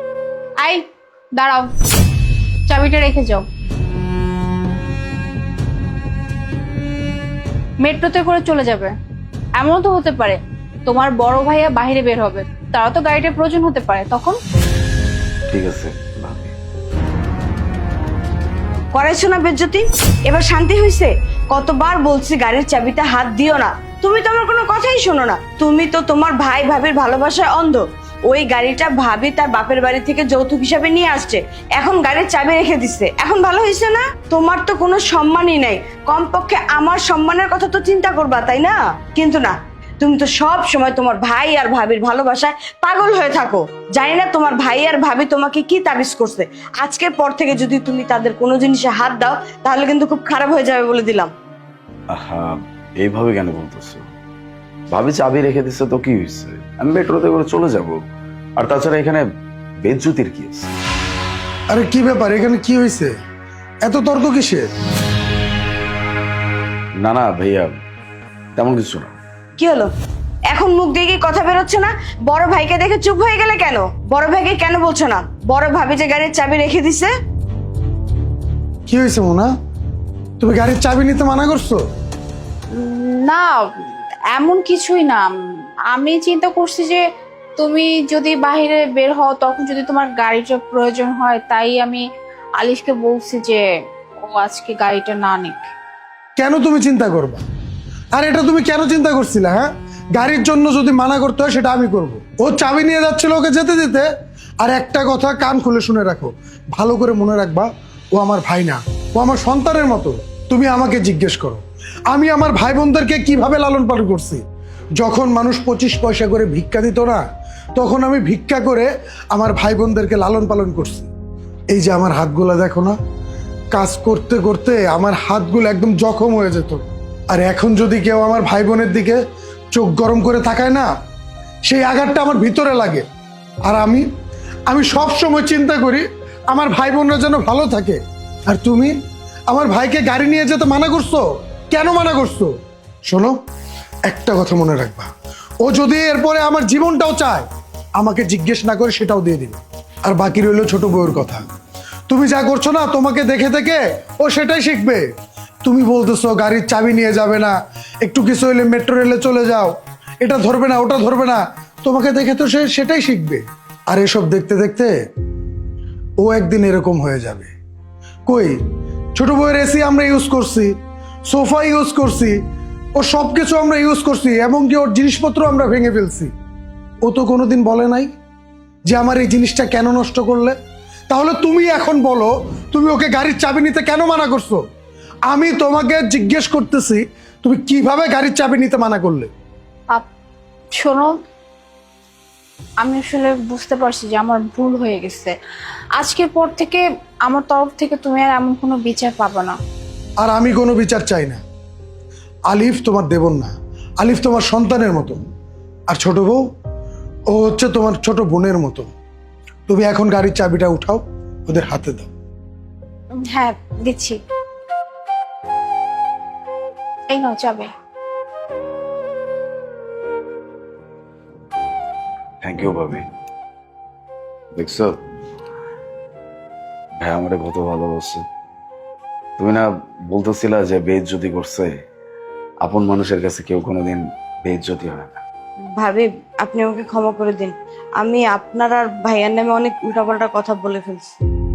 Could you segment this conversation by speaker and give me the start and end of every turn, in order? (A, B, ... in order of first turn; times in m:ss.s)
0:01.4-0:01.7 A
0:02.7-0:03.4 A
0:07.8-0:08.9 A
0:09.6-0:14.4 A
0:15.5-0:16.5 B
0:18.9-0:51.3 C
0:52.1-0:54.1 B
0:54.9-0:58.0 B
0:58.6-0:59.2 B
0:59.8-1:00.7 B
1:01.7-1:03.1 D
1:03.8-1:04.7 D
1:07.0-1:07.8 B
1:08.6-1:09.2 B
1:09.6-1:09.9 C
1:10.5-1:17.1 C
1:18.9-1:19.5 D
1:20.4-1:21.8 D
1:22.7-1:25.3 A
1:25.9-1:27.0 A
1:27.6-1:32.0 A
1:32.6-1:33.6 A
1:34.3-1:35.7 A
1:36.4-1:37.4 D
1:38.1-1:44.1 D
1:44.6-1:54.4 D
1:55.0-1:57.2 D
1:57.8-2:01.1 D
2:01.7-2:03.0 D
2:03.7-2:09.2 D
2:09.7-2:10.9 D
2:11.6-2:13.0 D
2:13.6-2:14.1 D
2:14.7-2:18.9 D
2:19.5-2:22.5 D
2:23.1-2:23.4 D
2:24.1-2:25.1 D
2:25.6-2:27.5 D
2:28.0-2:31.4 D
2:32.1-2:35.1 D
2:35.6-2:44.9 D
2:46.2-2:47.5 D
2:48.3-2:48.6 D
2:49.2-2:50.8 D
2:51.3-2:52.4 D
2:53.0-2:56.3 D
2:57.0-2:58.1 D
2:58.9-3:00.6 D
3:01.1-3:04.6 D
3:05.3-3:09.3 D
3:10.8-3:11.1 A
3:12.8-3:15.4 A
3:16.0-3:19.6 A
3:20.2-3:21.4 D
3:22.5-3:25.2 D
3:25.9-3:26.5 D
3:27.3-3:28.9 D
3:29.7-3:32.1 D
3:33.2-3:34.2 A
3:37.1-3:37.7 A
3:42.4-3:43.0 B
3:44.5-3:45.0 B
3:47.0-3:48.2 B
3:49.4-3:51.7 B
3:52.6-3:55.2 B
3:55.8-4:01.1 C